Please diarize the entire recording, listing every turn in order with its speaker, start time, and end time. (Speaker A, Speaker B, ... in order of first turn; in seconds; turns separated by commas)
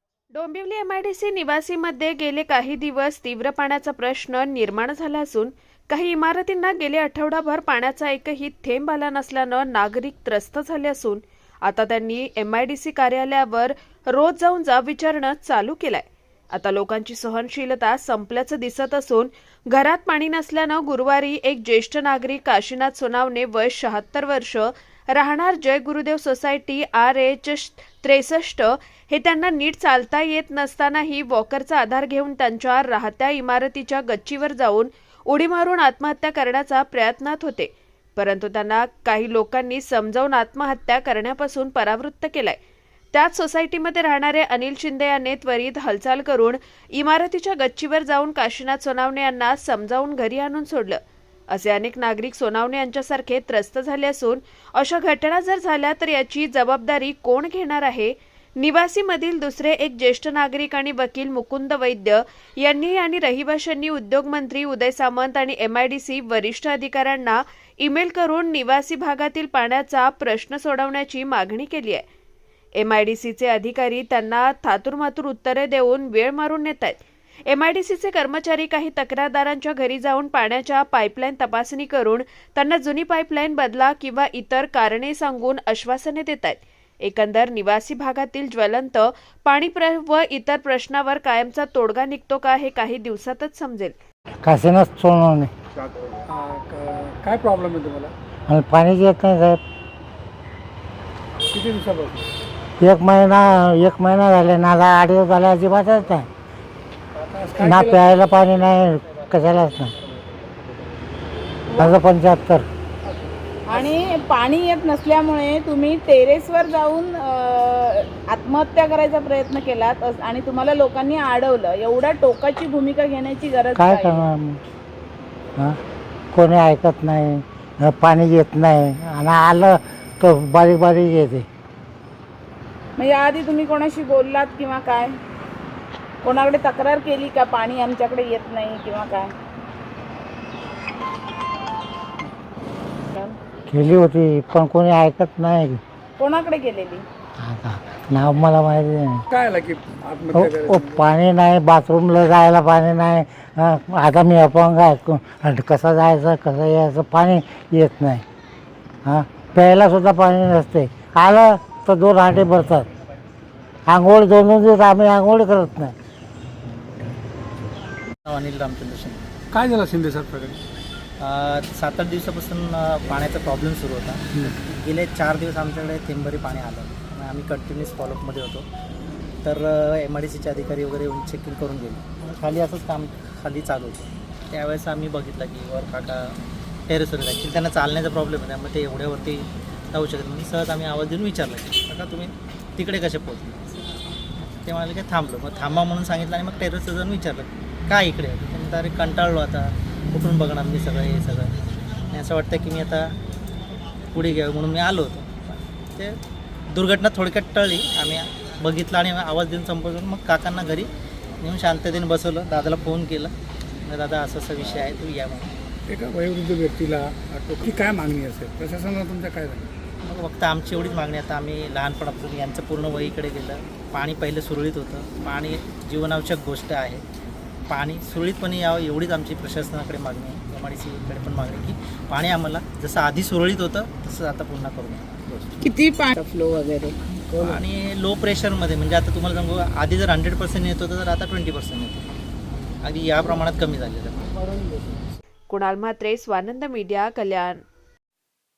Speaker A: 0.3-42.6, Speaker A: 43.1-72.0, Speaker A: 72.8-94.0, Speaker B: 94.4-95.5, Speaker C: 96.2-98.1, Speaker B: 98.5-99.6, Speaker C: 101.5-102.3, Speaker B: 102.8-106.3, Speaker C: 107.3-108.2, Speaker B: 107.6-109.9, Speaker D: 111.7-112.0, Speaker B: 111.8-112.7, Speaker C: 113.0-114.0, Speaker D: 113.7-124.3, Speaker B: 123.8-124.6, Speaker B: 126.3-131.4, Speaker D: 132.9-135.2, Speaker D: 136.2-139.3, Speaker B: 143.7-145.8, Speaker D: 146.2-147.0, Speaker B: 147.4-149.2, Speaker C: 149.3-151.0, Speaker B: 150.3-158.2, Speaker B: 159.0-162.9, Speaker B: 163.9-165.9, Speaker E: 168.2-169.3, Speaker C: 169.5-170.6, Speaker E: 171.2-178.7, Speaker E: 179.4-186.3, Speaker E: 186.9-193.6, Speaker E: 194.4-201.5, Speaker E: 202.1-203.1, Speaker E: 204.1-206.2, Speaker E: 206.7-213.3, Speaker E: 213.8-215.5, Speaker C: 215.9-219.7, Speaker E: 220.0-227.0, Speaker E: 227.7-235.2, Speaker D: 235.6-237.0, Speaker E: 237.4-242.1, Speaker E: 242.8-244.3, Speaker A: 245.5-247.6